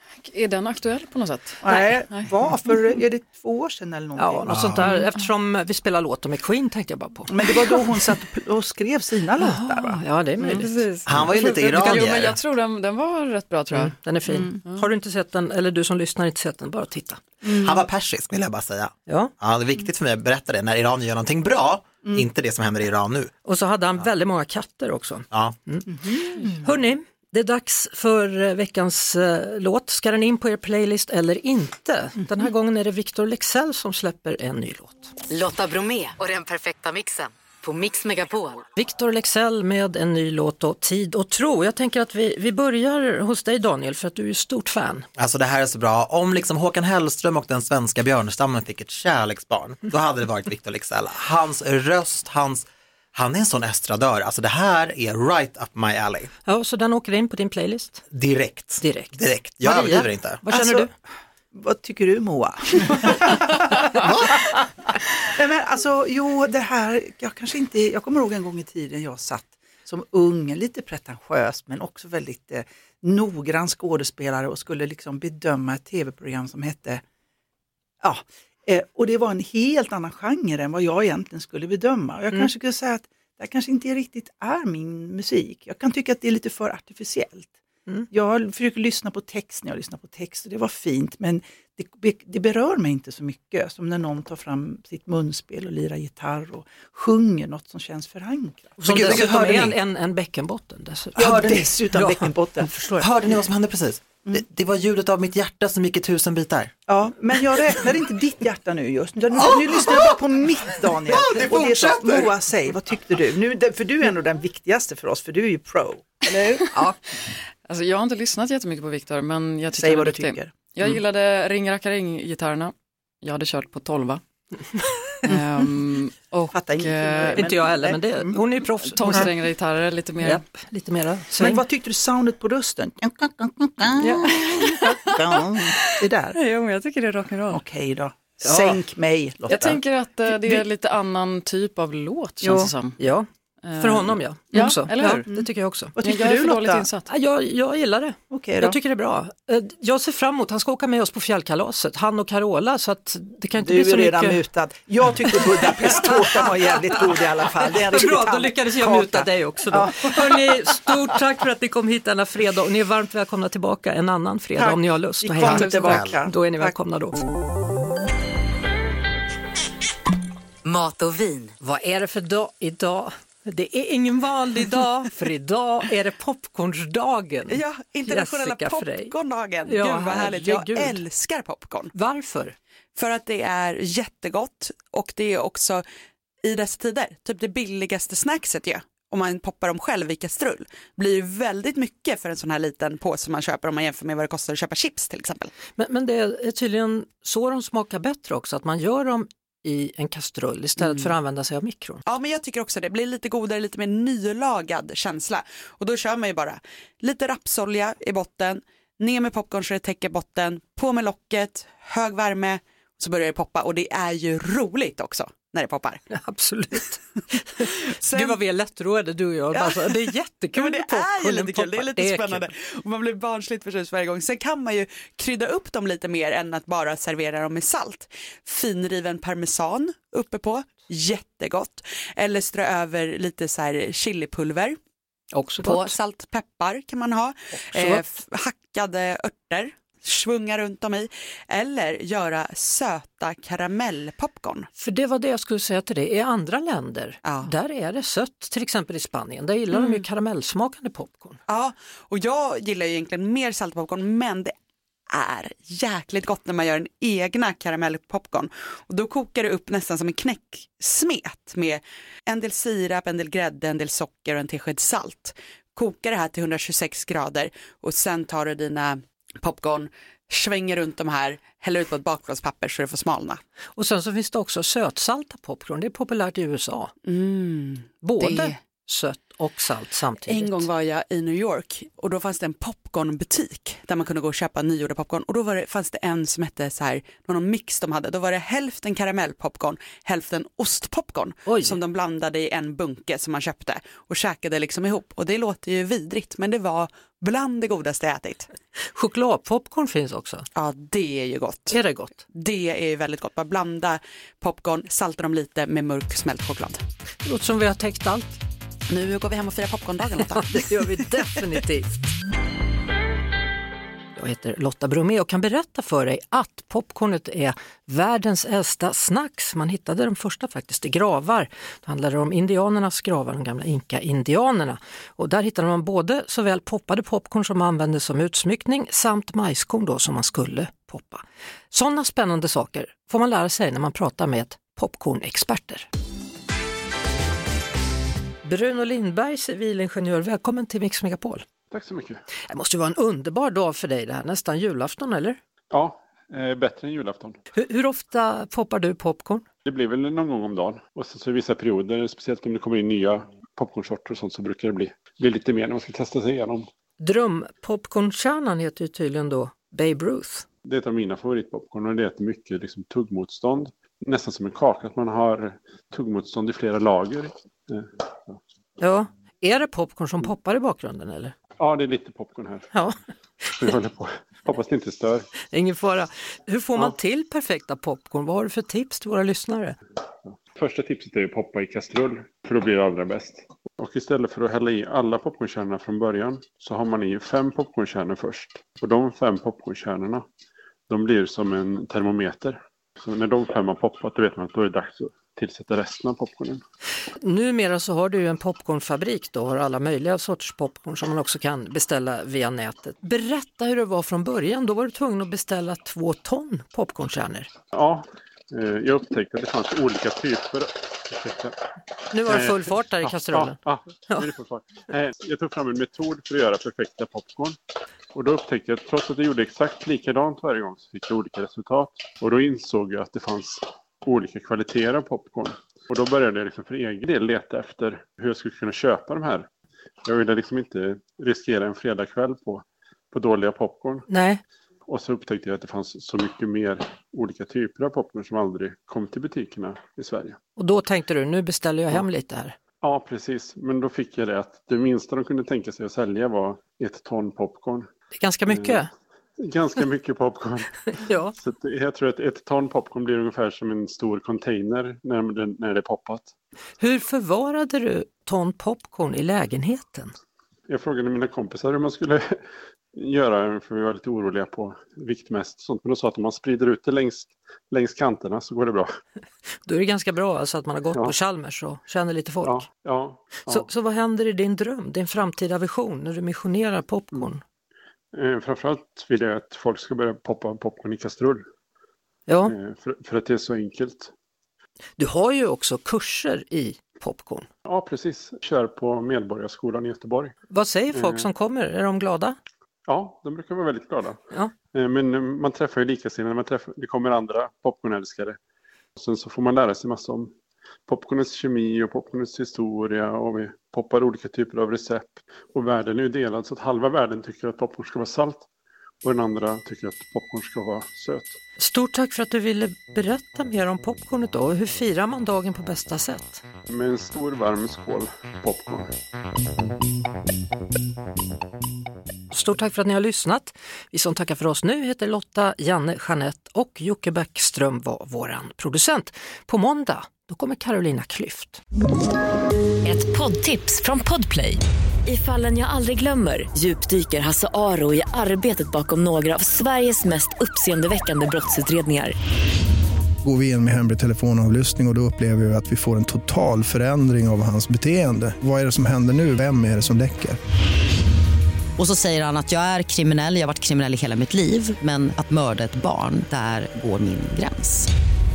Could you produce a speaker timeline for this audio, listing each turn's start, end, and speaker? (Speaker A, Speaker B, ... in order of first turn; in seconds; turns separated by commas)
Speaker A: 0.2-2.3, Speaker B: 1.6-4.9, Speaker C: 4.2-7.5, Speaker D: 4.5-4.9, Speaker B: 7.3-10.0, Speaker C: 9.4-10.8, Speaker A: 10.4-13.9, Speaker D: 11.1-12.4, Speaker C: 13.7-17.2, Speaker B: 17.4-17.8, Speaker D: 17.6-23.3, Speaker C: 19.1-19.3, Speaker C: 23.4-25.9, Speaker D: 25.3-25.6, Speaker B: 25.9-26.6, Speaker C: 26.6-35.1, Speaker E: 35.3-38.7, Speaker C: 38.8-45.1, Speaker D: 45.2-56.3, Speaker C: 56.5-58.0, Speaker D: 58.1-60.4, Speaker C: 58.8-60.9, Speaker B: 60.5-60.9, Speaker B: 61.5-64.6, Speaker D: 64.0-64.4, Speaker B: 65.2-77.0, Speaker B: 78.0-87.6, Speaker B: 88.1-99.7, Speaker C: 98.8-103.0, Speaker D: 98.9-99.7, Speaker B: 101.2-103.1, Speaker D: 101.2-101.5, Speaker D: 103.0-106.7, Speaker B: 106.9-116.9, Speaker D: 109.3-110.2, Speaker D: 110.9-112.4, Speaker A: 117.7-124.2, Speaker B: 119.8-120.5, Speaker A: 125.3-127.4, Speaker B: 126.5-128.4, Speaker C: 127.3-129.3, Speaker A: 128.8-130.4, Speaker C: 130.2-131.6, Speaker B: 131.4-136.4, Speaker A: 134.3-135.1, Speaker A: 136.3-137.6, Speaker B: 137.5-139.8, Speaker C: 138.4-138.8, Speaker A: 139.5-143.0, Speaker C: 139.5-139.8, Speaker B: 142.4-142.7, Speaker C: 143.0-145.9, Speaker A: 143.6-145.3, Speaker B: 145.3-146.9, Speaker A: 146.0-147.1, Speaker C: 147.1-154.4, Speaker B: 148.3-148.8, Speaker B: 153.6-160.9, Speaker C: 155.4-157.0, Speaker C: 157.6-167.2, Speaker B: 164.6-166.7, Speaker D: 165.4-166.2, Speaker E: 170.6-171.5, Speaker C: 171.6-179.1, Speaker F: 177.5-181.9, Speaker C: 179.7-181.0, Speaker C: 181.9-182.6, Speaker F: 182.9-185.8, Speaker F: 186.4-195.5, Speaker C: 195.8-202.0, Speaker F: 200.8-201.1, Speaker F: 202.1-216.0, Speaker C: 216.1-217.0, Speaker C: 217.6-222.4, Speaker F: 217.9-218.4, Speaker F: 219.5-234.8, Speaker C: 235.3-235.9, Speaker F: 235.6-244.7, Speaker C: 237.5-238.1, Speaker C: 244.8-251.4, Speaker F: 247.2-247.5, Speaker F: 249.7-250.0, Speaker F: 251.5-254.5, Speaker F: 255.1-273.4, Speaker C: 273.8-276.9, Speaker F: 277.1-278.6, Speaker C: 278.0-280.6, Speaker F: 280.3-298.5, Speaker C: 291.5-291.8, Speaker C: 298.9-300.5, Speaker F: 300.6-301.8, Speaker C: 301.7-302.2, Speaker F: 302.3-306.8, Speaker C: 307.2-308.4, Speaker F: 308.9-310.9, Speaker C: 310.4-311.9, Speaker C: 314.2-335.9, Speaker C: 338.4-341.4, Speaker G: 341.7-342.2, Speaker C: 342.5-345.4, Speaker G: 345.7-347.4, Speaker C: 347.5-349.4, Speaker G: 349.6-356.7, Speaker C: 357.0-360.5, Speaker G: 360.6-368.4, Speaker C: 368.8-371.4, Speaker G: 371.6-372.7, Speaker G: 373.6-375.3, Speaker C: 375.5-379.8, Speaker G: 380.3-390.2, Speaker G: 390.9-396.6, Speaker C: 397.2-407.5, Speaker G: 407.7-411.6, Speaker C: 412.1-413.6, Speaker G: 412.2-417.6, Speaker G: 418.1-429.5, Speaker G: 430.1-434.1, Speaker C: 434.1-434.4, Speaker G: 434.9-440.4, Speaker C: 440.6-442.6, Speaker G: 442.8-447.9, Speaker C: 448.1-448.9, Speaker G: 448.5-448.8, Speaker G: 449.4-456.3, Speaker C: 451.0-451.4, Speaker C: 456.8-460.1, Speaker G: 460.7-462.4, Speaker G: 462.9-468.9, Speaker C: 469.7-472.6, Speaker G: 472.4-473.7, Speaker C: 473.5-477.4, Speaker G: 478.1-481.4, Speaker C: 482.3-482.5, Speaker G: 482.4-484.1, Speaker C: 485.0-487.5, Speaker G: 487.7-490.4, Speaker C: 490.5-492.4, Speaker G: 490.9-491.3, Speaker G: 492.9-494.2, Speaker G: 494.7-498.4, Speaker G: 499.0-500.3, Speaker G: 500.9-508.5, Speaker G: 509.0-511.4, Speaker C: 511.6-516.4, Speaker G: 516.7-518.9, Speaker C: 522.3-531.6, Speaker H: 532.9-542.1, Speaker I: 543.2-550.4, Speaker J: 551.8-557.9